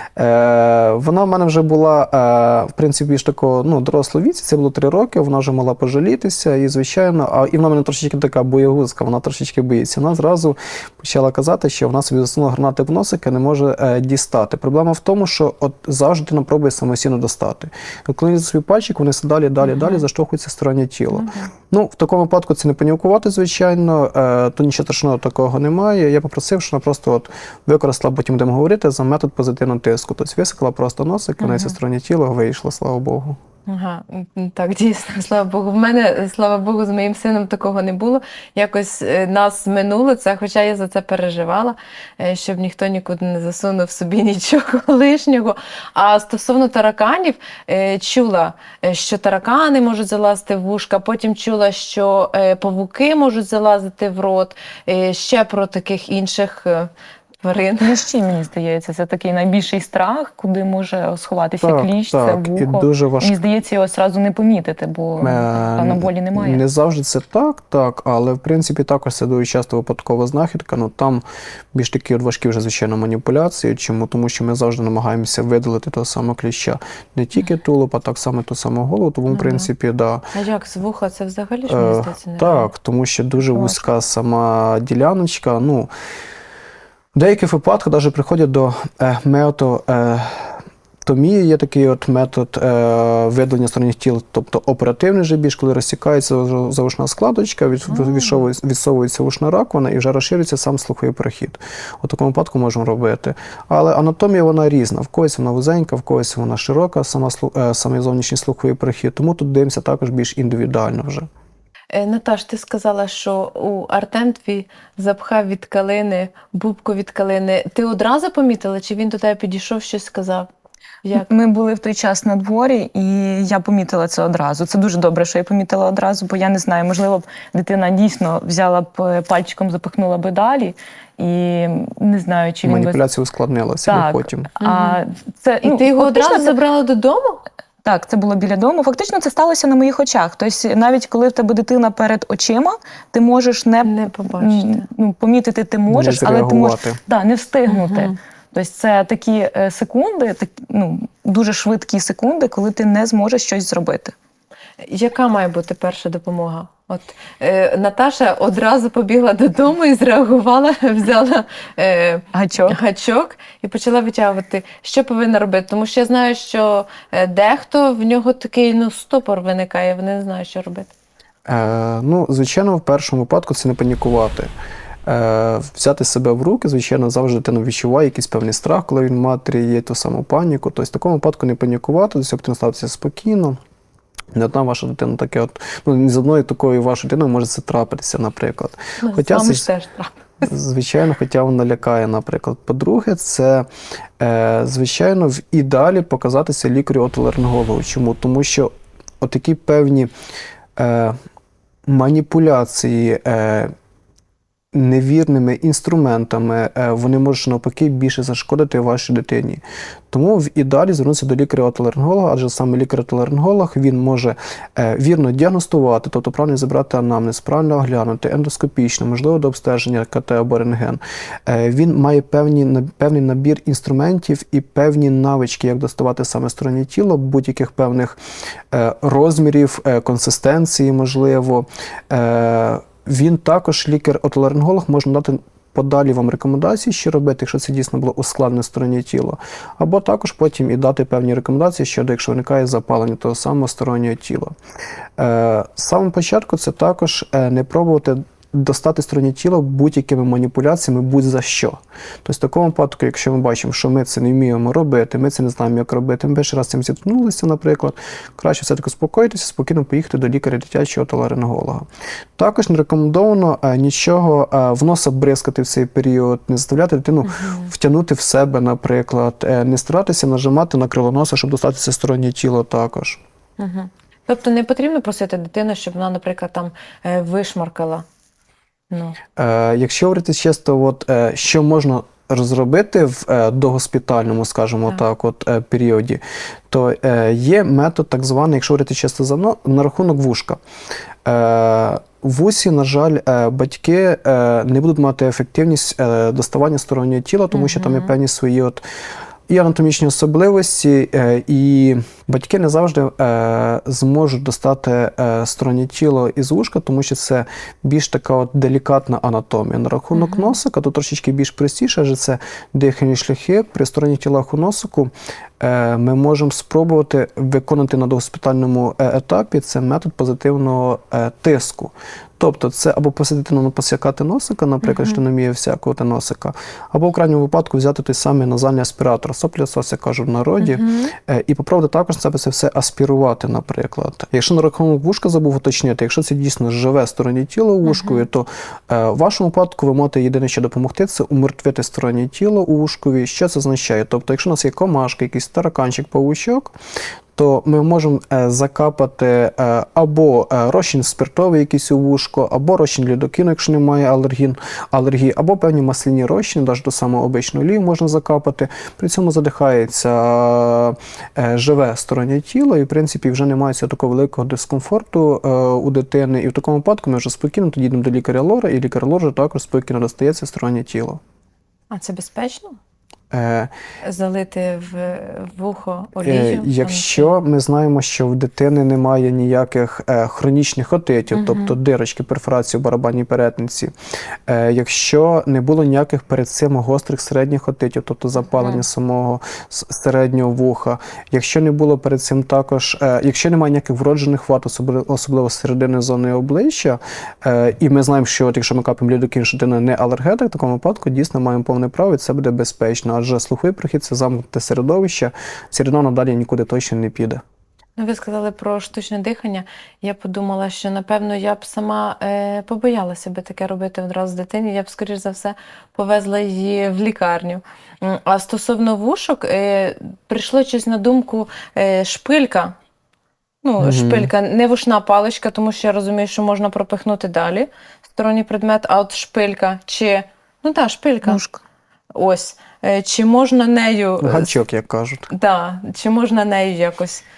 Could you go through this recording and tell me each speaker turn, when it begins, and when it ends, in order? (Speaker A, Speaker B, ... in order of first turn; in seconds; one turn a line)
Speaker A: 0.2-33.4
Speaker B: 19.6-20.1
Speaker B: 21.1-21.5
Speaker B: 31.4-31.8
Speaker B: 33.7-58.0
Speaker C: 57.8-66.6
Speaker A: 61.6-63.4
Speaker A: 65.2-80.3
Speaker B: 79.3-79.7
Speaker B: 80.3-82.7
Speaker A: 81.7-85.9
Speaker A: 87.2-111.3
Speaker B: 97.9-98.5
Speaker B: 111.9-120.5
Speaker B: 121.0-121.3
Speaker C: 121.2-133.0
Speaker A: 132.6-134.5
Speaker C: 133.9-136.5
Speaker B: 134.6-135.0
Speaker B: 135.6-137.4
Speaker C: 137.8-154.1
Speaker B: 143.8-144.9
Speaker A: 145.9-147.0
Speaker B: 147.7-148.2
Speaker B: 154.8-170.9
Speaker C: 162.3-162.8
Speaker A: 171.5-174.5
Speaker A: 175.1-183.6
Speaker A: 184.3-189.7
Speaker B: 189.0-190.5
Speaker A: 190.4-193.7
Speaker A: 194.2-200.1
Speaker A: 200.8-201.2
Speaker A: 201.9-203.7
Speaker A: 204.7-228.2
Speaker A: 228.7-244.5
Speaker A: 245.2-261.9
Speaker A: 262.4-273.2
Speaker B: 267.2-267.7
Speaker B: 273.6-278.1
Speaker B: 278.9-279.2
Speaker A: 279.4-290.6
Speaker A: 291.2-298.8
Speaker B: 297.5-298.1
Speaker A: 299.5-346.7
Speaker B: 310.1-310.6
Speaker B: 324.8-325.2
Speaker B: 330.6-331.1
Speaker B: 337.9-338.3
Speaker A: 347.4-371.2
Speaker B: 371.9-372.8
Speaker A: 373.3-373.7
Speaker B: 374.0-377.3
Speaker A: 376.2-383.9
Speaker B: 381.3-381.8
Speaker A: 384.5-407.4
Speaker B: 388.5-388.9
Speaker B: 408.0-422.8
Speaker B: 423.6-431.4
Speaker A: 423.8-424.3
Speaker C: 431.2-431.6
Speaker B: 432.1-434.6
Speaker A: 434.2-435.3
Speaker B: 435.3-437.2